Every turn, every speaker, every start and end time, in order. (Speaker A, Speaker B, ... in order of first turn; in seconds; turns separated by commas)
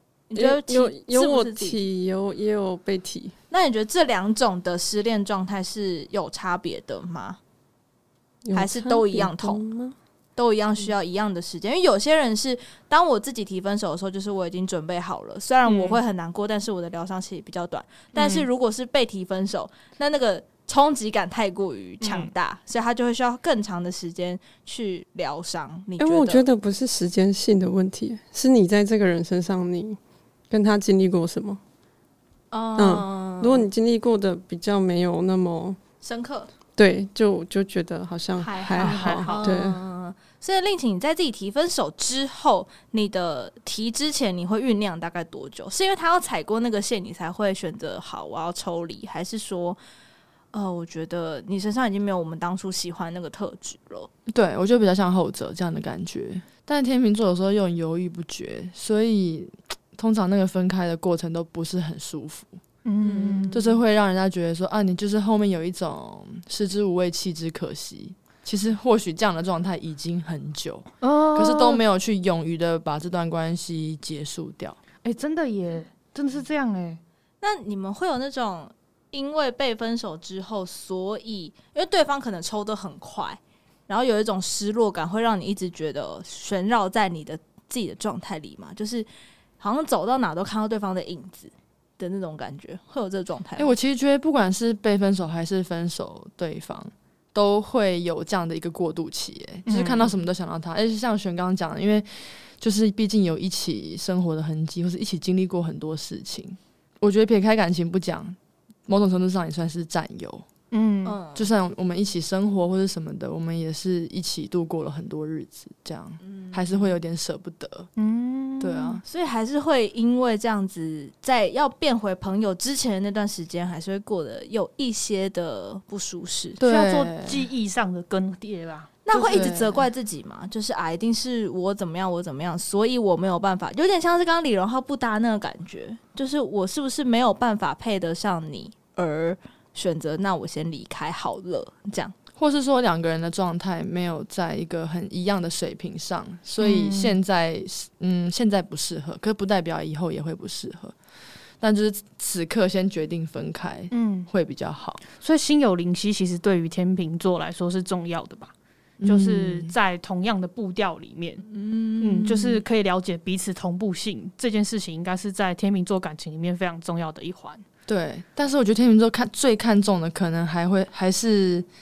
Speaker A: 0.3-1.8, Speaker B: 0.3-3.4, Speaker A: 3.5-7.4, Speaker B: 8.4-10.0, Speaker A: 8.5-9.6, Speaker A: 10.4-26.5, Speaker C: 15.7-16.0, Speaker C: 18.1-18.5, Speaker C: 22.0-22.3, Speaker B: 26.0-30.0, Speaker B: 30.5-31.6, Speaker A: 32.5-33.7, Speaker B: 32.8-35.8, Speaker A: 36.0-36.5, Speaker B: 36.8-39.8, Speaker A: 38.4-49.8, Speaker C: 38.8-39.6, Speaker A: 50.5-54.1, Speaker D: 54.3-62.6, Speaker C: 62.9-63.7, Speaker A: 63.0-63.6, Speaker D: 63.5-74.8, Speaker C: 71.0-71.8, Speaker C: 75.0-77.0, Speaker A: 77.4-89.1, Speaker A: 89.6-93.7, Speaker D: 93.6-108.4, Speaker C: 99.7-100.2, Speaker D: 108.9-110.5, Speaker C: 110.7-111.2, Speaker A: 111.0-111.5, Speaker D: 111.3-117.9, Speaker A: 116.2-116.8, Speaker C: 118.0-119.0, Speaker D: 118.6-119.0, Speaker A: 119.0-126.6, Speaker D: 126.6-127.5, Speaker C: 126.6-129.4, Speaker A: 129.1-142.1, Speaker D: 129.1-129.8, Speaker D: 142.4-150.9, Speaker C: 146.6-147.2, Speaker D: 151.6-155.0, Speaker C: 153.9-154.3, Speaker C: 155.2-158.5, Speaker D: 159.0-159.7, Speaker C: 159.0-161.4, Speaker A: 161.5-162.6, Speaker C: 162.0-167.6, Speaker D: 167.9-171.7